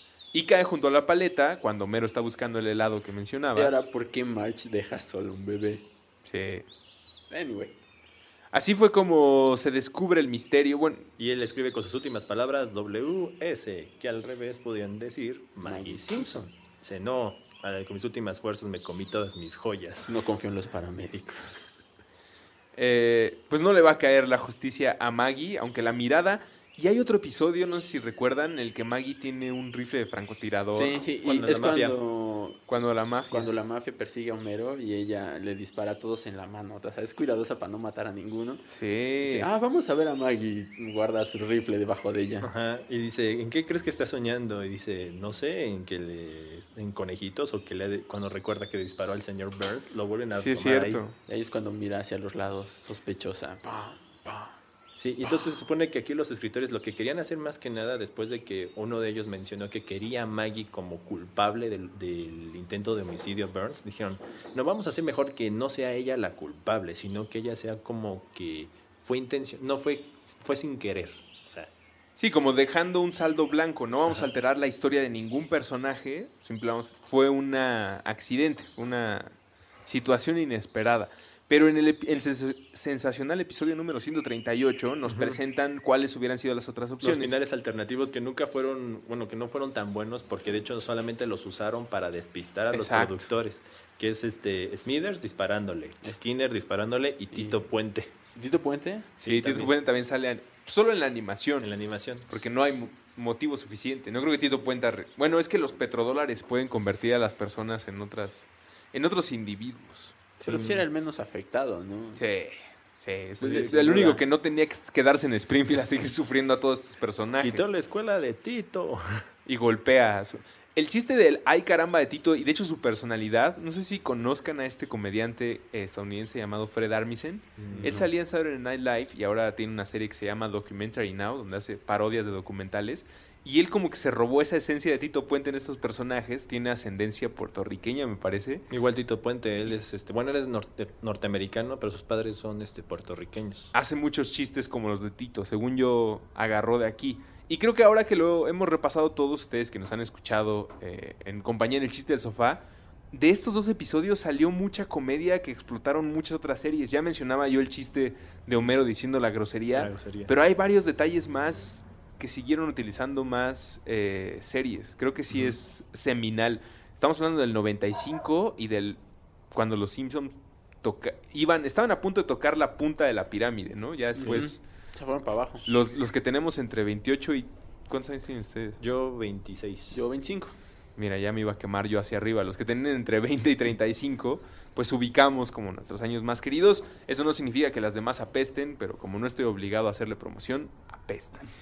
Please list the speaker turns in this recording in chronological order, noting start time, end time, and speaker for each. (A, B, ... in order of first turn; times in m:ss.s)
0:00.3-0:03.9 A
0:03.5-0:05.8 B
0:06.2-0:06.6 A
0:07.3-0:07.7 B
0:08.5-0:11.1 A
0:11.2-0:20.1 C
0:15.6-0:16.5 B
0:20.0-0:21.6 B
0:22.7-0:31.0 A
0:30.7-0:32.6 B
0:31.2-0:31.9 C
0:31.6-0:31.8 A
0:32.7-0:33.5 A
0:33.3-0:38.6 B
0:38.7-0:39.5 A
0:39.2-0:42.5 B
0:42.4-0:51.0 C
0:50.3-0:51.2 A
0:51.3-0:54.5 B
0:54.9-1:11.7 C
1:12.2-1:19.3 A
1:19.8-1:27.4 A
1:25.0-1:25.4 C
1:27.0-1:38.1 C
1:32.7-1:33.3 A
1:37.3-1:37.6 B
1:38.3-1:39.1 B
1:39.2-1:39.7 C
1:39.2-1:41.7 A
1:41.6-1:42.3 C
1:42.3-1:50.8 A
1:50.4-1:52.2 B
1:52.2-1:57.6 A
1:53.4-1:54.2 C
1:53.4-1:54.2 B
1:57.4-1:59.3 C
1:59.4-2:18.6 A
2:07.6-2:08.0 C
2:07.8-2:08.1 B
2:18.7-2:23.7 C
2:23.7-2:49.0 A
2:39.7-2:40.3 C
2:45.3-2:45.6 C
2:49.5-2:54.6 A
2:54.2-2:55.7 B
2:55.6-2:58.8 A
2:58.8-3:00.0 C
2:59.9-3:00.5 B
3:01.0-3:11.5 A